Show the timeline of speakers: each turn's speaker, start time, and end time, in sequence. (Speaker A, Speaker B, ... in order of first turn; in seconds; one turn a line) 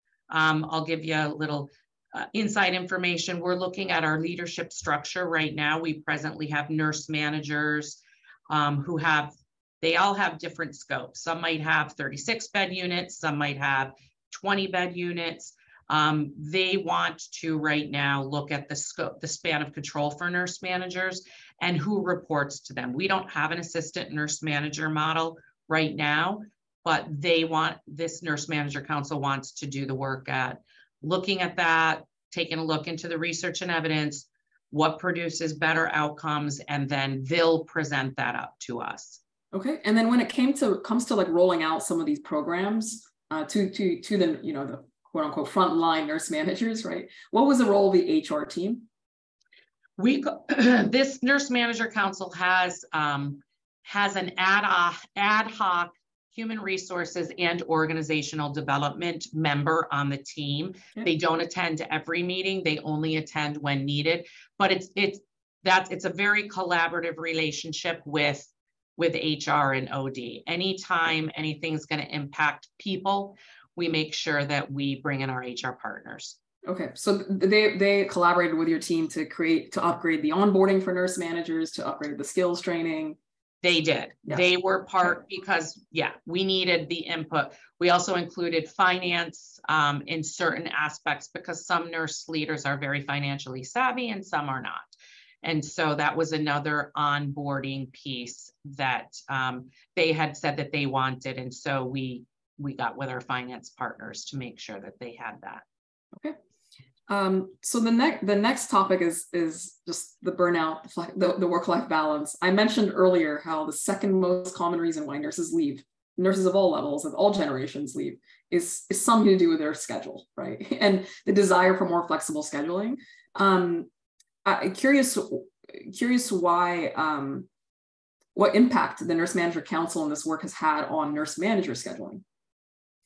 Speaker A: 0.3-39.2
Speaker B: 39.5-48.9
Speaker A: 50.0-76.4
Speaker B: 76.7-83.2
Speaker A: 83.6-105.6
Speaker B: 107.1-123.9
Speaker B: 124.5-127.5
Speaker B: 128.3-132.2